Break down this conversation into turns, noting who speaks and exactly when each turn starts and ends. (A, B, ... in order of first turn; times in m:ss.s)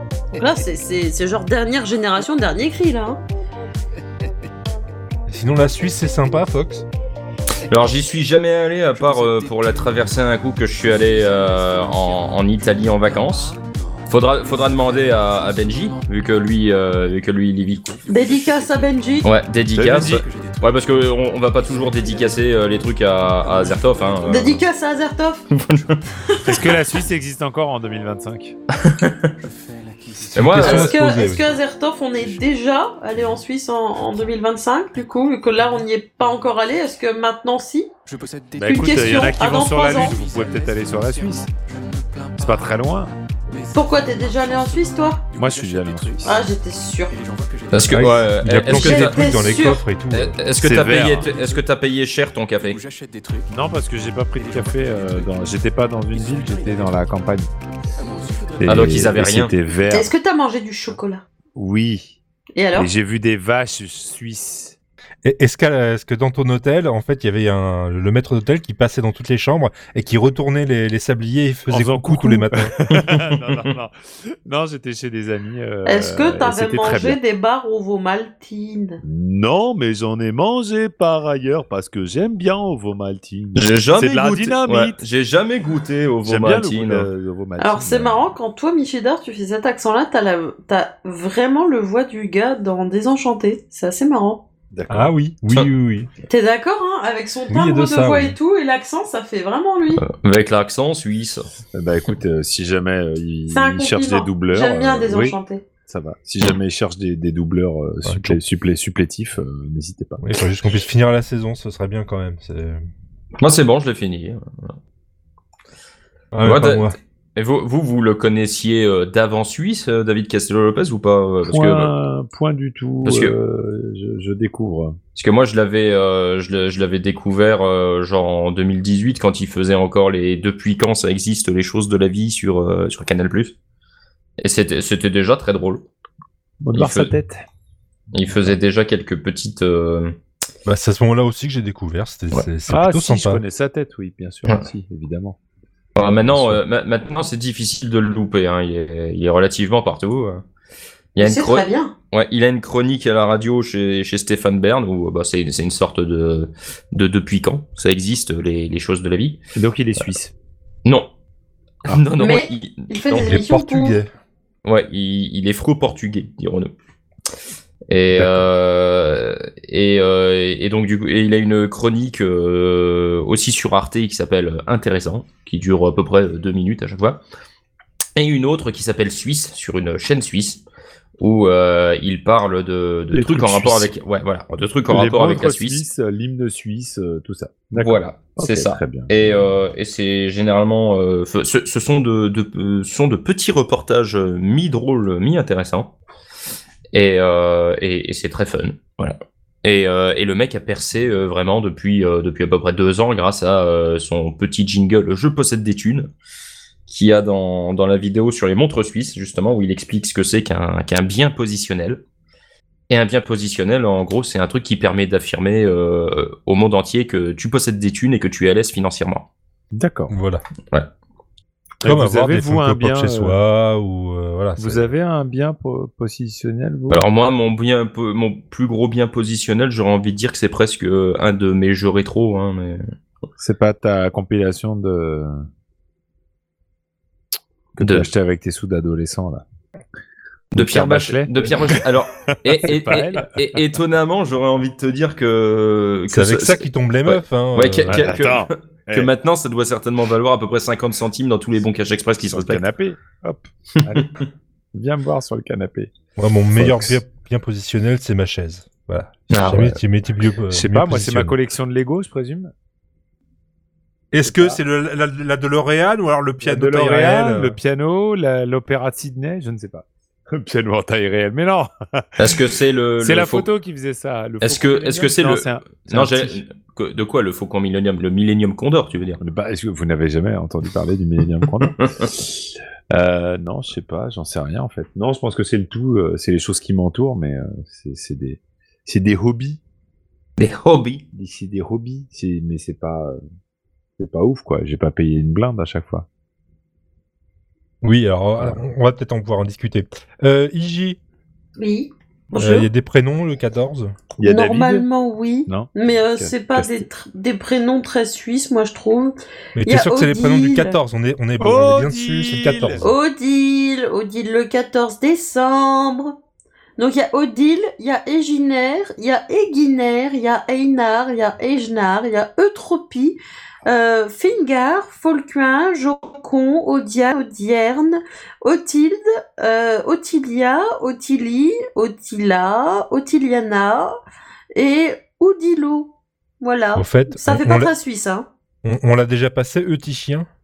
0:00.3-0:03.2 A
0:05.3-0:06.8 B
0:07.7-0:13.6 C
0:08.9-0:24.7 D
0:14.1-0:17.9 C
0:18.1-0:19.2 A
0:19.2-0:24.6 C
0:19.7-0:20.2 E
0:24.2-0:25.5 A
0:25.5-0:26.0 C
0:26.3-0:26.6 A
0:26.4-0:28.6 E
0:28.8-0:29.3 C
0:29.4-0:32.5 D
0:30.3-0:31.4 B
0:30.3-0:30.9 C
0:30.6-0:37.9 A
0:33.1-0:33.4 D
0:34.0-0:34.4 D
0:35.6-0:36.3 D
0:38.0-0:42.9 D
0:38.6-0:41.5 E
0:38.6-0:40.2 A
0:42.4-0:43.1 E
0:43.5-0:48.8 D
0:43.7-0:45.2 A
0:45.3-0:46.4 E
0:46.2-0:47.1 A
0:47.7-0:52.8 C
0:47.9-0:50.3 B
0:48.7-0:49.8 A
0:50.6-0:51.3 E
0:50.9-0:51.6 D
0:52.6-0:57.2 D
0:53.5-0:57.5 E
0:57.9-0:59.1 D
0:58.6-1:00.1 E
0:58.6-0:59.5 C
0:59.9-1:01.2 A
1:01.5-1:02.2 E
1:02.6-1:02.9 A
1:02.7-1:04.8 E
1:05.2-1:12.7 B
1:11.7-1:17.2 E
1:12.9-1:13.4 C
1:15.8-1:19.0 A
1:19.0-1:25.0 E
1:23.6-1:27.1 C
1:26.2-1:28.3 E
1:27.6-1:34.4 A
1:34.7-1:35.1 E
1:34.9-1:36.1 B
1:36.3-1:40.0 A
1:37.5-1:38.4 B
1:40.0-1:41.4 C
1:41.7-1:50.2 E
1:43.5-1:45.6 A
1:48.0-1:48.4 B
1:50.2-1:52.8 B
1:53.4-1:54.7 C
1:56.3-1:57.0 B
1:56.4-2:01.9 C
2:01.5-2:05.0 E
2:03.0-2:03.3 C
2:05.1-2:13.5 C
2:14.4-2:15.9 C
2:16.6-2:17.4 E
2:16.7-2:17.1 C
2:18.1-2:20.2 C
2:18.3-2:18.6 E
2:20.6-2:23.4 B
2:22.7-2:25.4 E
2:26.0-2:30.4 C
2:26.1-2:26.6 E
2:31.2-2:39.4 C
2:31.2-2:31.9 A
2:39.5-2:40.3 E
2:40.8-2:41.1 C
2:41.8-2:43.4 C
2:42.2-2:44.0 A
2:43.2-2:44.1 B
2:44.6-2:46.7 C
2:47.9-2:57.2 C
2:48.1-2:48.4 E
2:58.2-3:00.6 C
3:01.2-3:05.8 C
3:03.1-3:03.9 E
3:04.9-3:09.1 E
3:07.7-3:15.9 C
3:16.9-3:26.1 C
3:26.9-3:32.0 C
3:32.9-3:39.3 C
3:39.7-3:40.1 E
3:40.1-3:40.4 B
3:41.8-3:43.4 E
3:41.8-3:44.9 B
3:44.6-3:47.0 E
3:46.9-3:52.8 C
3:53.4-3:55.4 E
3:57.8-3:59.4 E
3:57.8-3:58.1 C
4:00.5-4:12.6 C
4:00.6-4:03.3 E
4:06.1-4:08.1 B
4:07.9-4:09.1 E
4:12.2-4:14.2 E
4:14.7-4:15.9 E
4:16.2-4:21.4 B
4:16.5-4:17.0 E
4:19.3-4:19.8 C
4:20.5-4:22.5 E
4:24.1-4:27.6 B
4:24.2-4:24.6 E
4:26.4-4:32.3 E
4:32.2-4:33.5 C
4:33.0-4:36.4 E
4:34.4-4:39.2 C
4:39.2-4:49.6 E
4:41.6-4:42.1 C
4:50.4-4:51.0 C
4:51.1-4:53.2 E
4:54.0-4:56.0 E
4:57.8-5:01.0 B
5:01.6-5:02.7 A
5:02.4-5:03.9 B
5:04.2-5:04.8 E
5:04.2-5:10.8 A
5:05.5-5:06.8 E
5:09.5-5:12.9 B
5:11.4-5:12.8 E
5:12.8-5:16.1 A
5:16.8-5:33.9 A
5:34.5-5:38.3 A
5:36.8-5:37.7 B
5:38.6-5:40.3 B